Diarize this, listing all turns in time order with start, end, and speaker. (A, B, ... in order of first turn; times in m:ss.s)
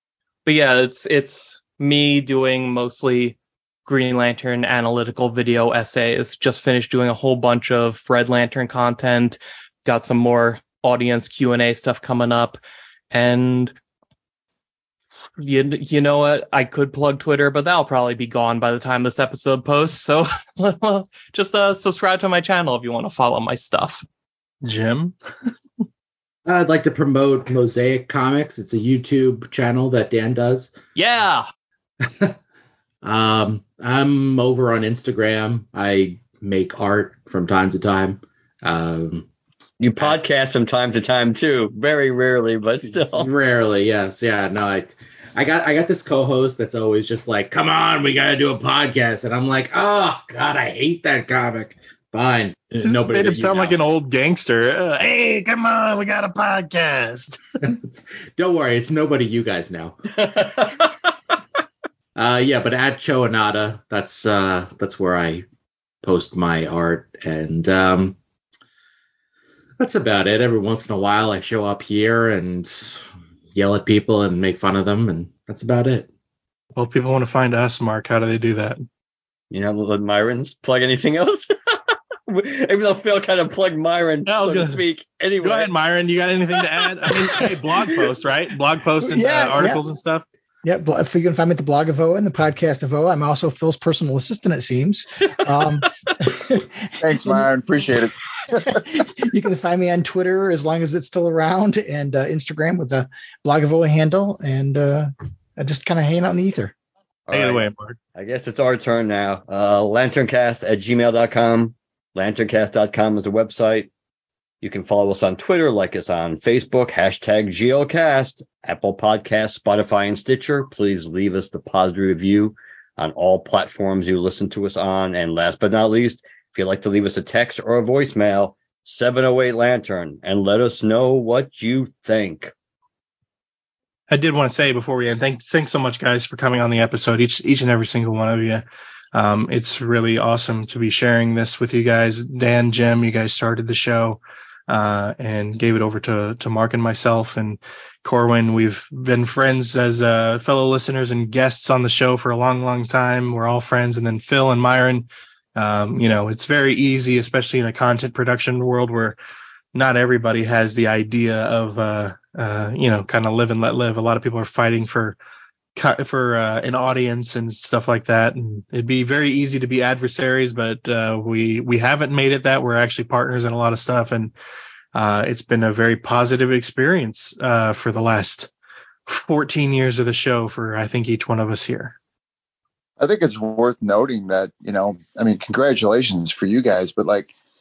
0:00.4-0:12.6 A
0:13.1-0:13.7 A
0:15.4-0:24.0 A
0:24.6-0:25.5 B
0:26.5-0:30.7 C
0:31.0-0:31.4 A
0:32.0-0:32.4 C
0:33.0-0:39.3 C
0:39.8-0:43.3 D
0:43.1-0:53.8 C
0:52.8-0:57.4 B
0:57.7-1:00.0 C
1:02.2-1:05.4 C
1:06.0-1:08.2 C
1:09.8-1:16.1 C
1:16.7-1:18.8 B
1:19.5-1:21.7 D
1:22.3-1:25.7 D
1:24.2-1:24.8 B
1:25.4-1:30.2 B
1:27.0-1:28.1 D
1:29.1-1:29.8 E
1:30.6-1:37.4 E
1:37.0-1:39.0 F
1:38.5-1:46.7 E
1:47.3-1:53.9 D
1:47.3-1:48.0 B
1:54.6-2:12.5 D
2:14.1-2:39.2 B
2:39.7-2:45.2 B
2:45.8-2:54.3 B
2:54.9-2:58.5 B
2:59.1-3:02.0 B
3:03.0-3:07.3 F